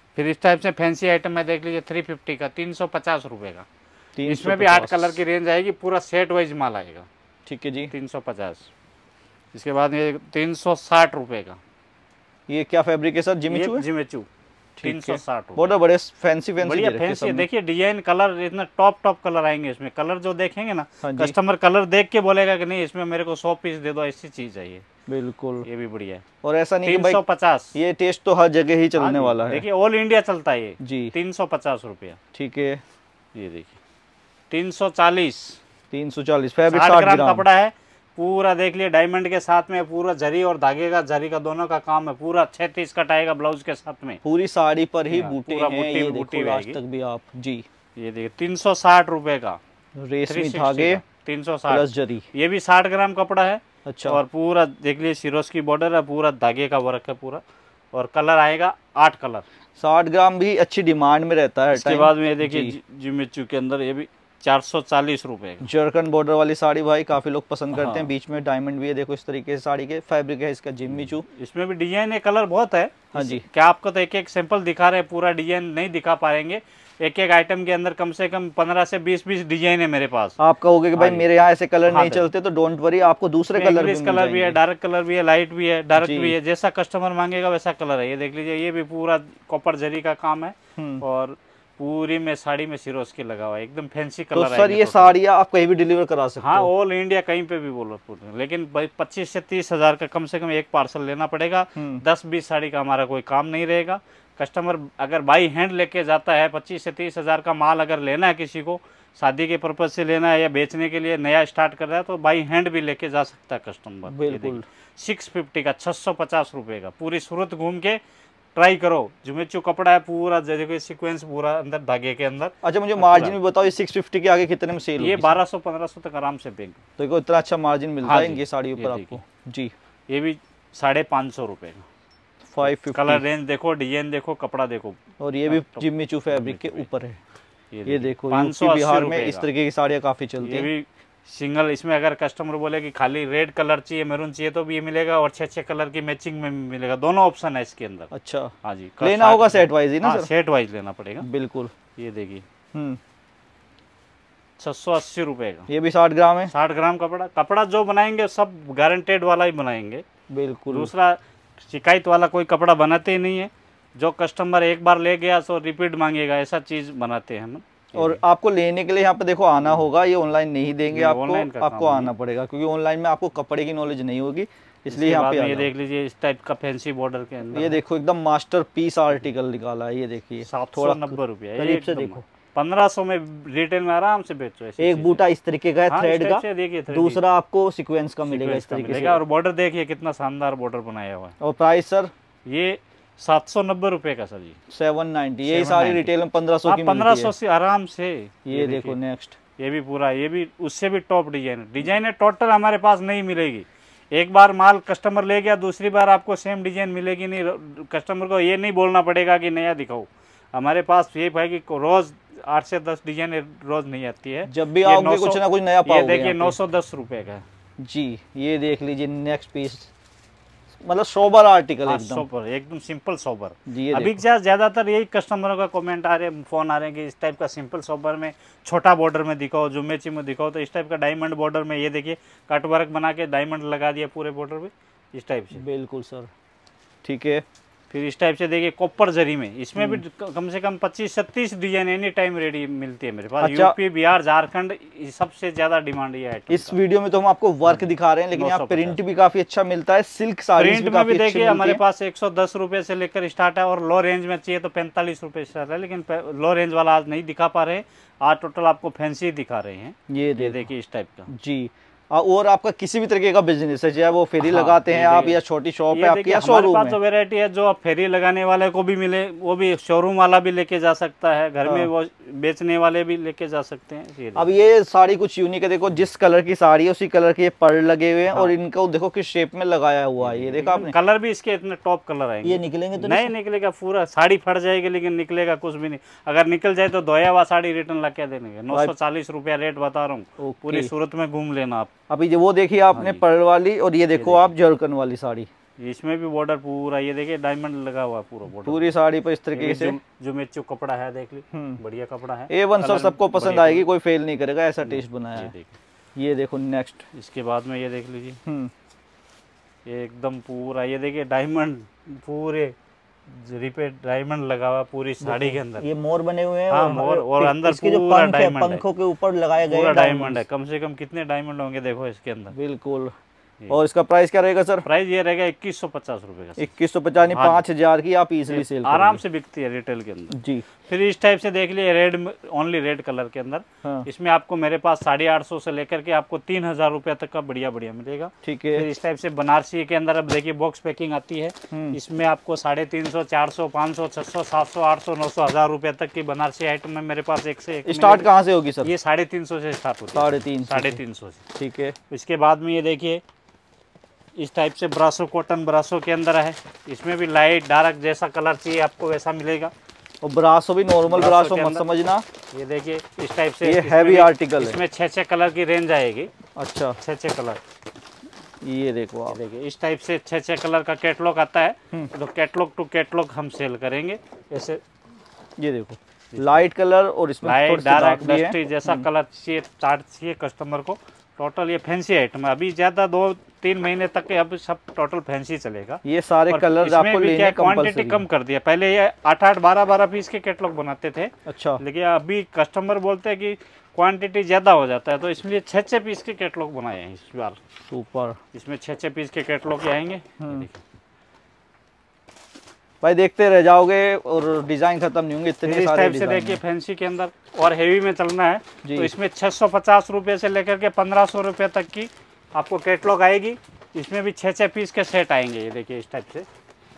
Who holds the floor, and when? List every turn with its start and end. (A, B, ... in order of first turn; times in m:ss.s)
0:00.2-0:03.7 A
0:04.2-0:05.2 B
0:04.3-0:07.1 A
0:07.5-0:07.9 B
0:07.9-0:08.7 A
0:09.5-0:11.6 A
0:12.5-0:13.8 B
0:13.5-0:14.3 A
0:14.8-0:17.5 B
0:14.8-0:15.8 A
0:16.6-0:24.8 A
0:21.0-0:21.4 B
0:25.1-0:25.7 B
0:25.6-0:26.2 A
0:26.4-0:27.2 B
0:26.8-0:27.7 A
0:27.7-0:29.6 B
0:29.0-0:32.2 A
0:30.8-0:31.1 B
0:32.3-0:32.8 B
0:33.4-0:33.8 A
0:34.5-0:35.6 A
0:35.9-0:37.4 B
0:36.7-0:44.2 A
0:44.2-0:47.6 B
0:45.1-0:46.8 A
0:48.0-0:49.6 A
0:50.0-0:51.0 B
0:50.3-0:57.4 A
0:51.7-0:52.2 B
0:53.9-0:54.2 B
0:57.9-0:59.4 A
0:59.8-1:02.8 B
1:01.7-1:05.7 A
1:05.6-1:11.2 B
1:07.7-1:08.1 A
1:10.9-1:20.4 A
1:13.1-1:13.4 B
1:20.4-1:24.6 B
1:21.0-1:21.3 A
1:21.9-1:22.3 A
1:23.5-1:35.2 A
1:26.0-1:26.4 B
1:30.8-1:31.0 B
1:34.3-1:36.7 B
1:36.4-1:58.0 A
1:41.8-1:42.0 B
1:54.1-1:54.6 B
1:58.6-2:03.4 A
2:02.6-2:05.4 B
2:05.0-2:06.8 A
2:07.0-2:09.7 B
2:08.0-2:09.2 A
2:10.1-2:11.9 A
2:12.5-2:13.2 B
2:12.6-2:16.9 A
2:15.2-2:17.2 B
2:17.7-2:19.5 A
2:17.9-2:20.7 B
2:20.4-2:28.1 A
2:28.1-2:30.3 B
2:28.6-2:31.3 A
2:31.2-2:31.7 B
2:32.0-2:32.4 A
2:32.7-2:33.0 B
2:34.6-2:35.7 A
2:35.7-2:36.5 B
2:36.5-2:40.0 A
2:40.3-2:40.9 B
2:40.7-2:48.2 A
2:48.0-2:55.7 B
2:50.9-2:52.1 A
2:54.9-2:57.8 A
2:57.5-3:02.2 B
3:00.5-3:05.2 A
3:04.8-3:09.2 B
3:05.9-3:07.2 A
3:08.3-3:11.3 A
3:11.4-3:12.1 B
3:12.5-3:14.6 A
3:14.7-3:17.3 B
3:15.5-3:16.1 A
3:16.7-3:19.0 A
3:18.5-3:19.4 B
3:19.6-3:37.4 A
3:34.5-3:36.6 B
3:37.8-3:39.9 B
3:40.8-3:42.3 B
3:41.9-3:55.6 A
3:43.7-3:44.2 B
3:55.6-3:56.3 B
3:57.0-3:57.4 B
3:57.9-4:06.8 A
3:59.8-4:00.0 B
4:03.4-4:03.8 B
4:06.5-4:11.8 B
4:07.7-4:09.0 A
4:10.6-4:21.3 A
4:20.1-4:20.6 B
4:21.3-4:27.0 B
4:24.4-4:25.4 A
4:25.9-4:34.6 A
4:31.6-4:31.9 B
4:34.4-4:40.9 B
4:40.2-4:51.9 A
4:42.4-4:43.3 B
4:50.4-4:50.9 B
4:52.1-4:55.5 B
4:53.0-4:53.2 A
4:54.2-4:54.5 A
4:55.8-4:58.9 A
4:58.6-5:00.0 B
4:59.5-5:03.9 A
5:01.5-5:01.8 B
5:02.5-5:05.5 B
5:04.8-5:05.7 A
5:06.2-5:07.0 B
5:07.1-5:08.4 A
5:08.5-5:08.7 B
5:09.9-5:12.8 A
5:13.3-5:15.9 A
5:15.2-5:20.4 B
5:16.7-5:18.8 A
5:19.6-5:22.5 A
5:22.5-5:23.1 B
5:23.7-5:24.8 B
5:24.8-5:26.7 A
5:26.6-5:29.2 B
5:27.3-5:27.6 A
5:28.5-5:48.3 A
5:30.3-5:30.6 B
5:38.4-5:38.9 B
5:41.7-5:42.0 B
5:47.9-5:48.9 B
5:48.8-5:51.4 A
5:50.2-5:51.0 B
5:51.5-5:52.0 B
5:52.1-5:53.2 A
5:54.4-5:59.7 A
6:00.2-6:02.2 B
6:01.1-6:01.8 A
6:02.5-6:06.3 A
6:03.6-6:04.8 B
6:06.6-6:07.0 B
6:07.0-6:07.6 A
6:08.6-6:09.4 B
6:09.3-6:14.8 A
6:15.6-6:19.1 B
6:16.3-6:16.6 A
6:17.4-6:37.6 A
6:26.0-6:28.2 B
6:31.5-6:31.8 B
6:37.9-6:38.4 B
6:38.5-6:40.8 A
6:40.4-6:40.7 B
6:43.0-6:46.6 B
6:45.6-6:56.5 A
6:48.8-6:49.1 B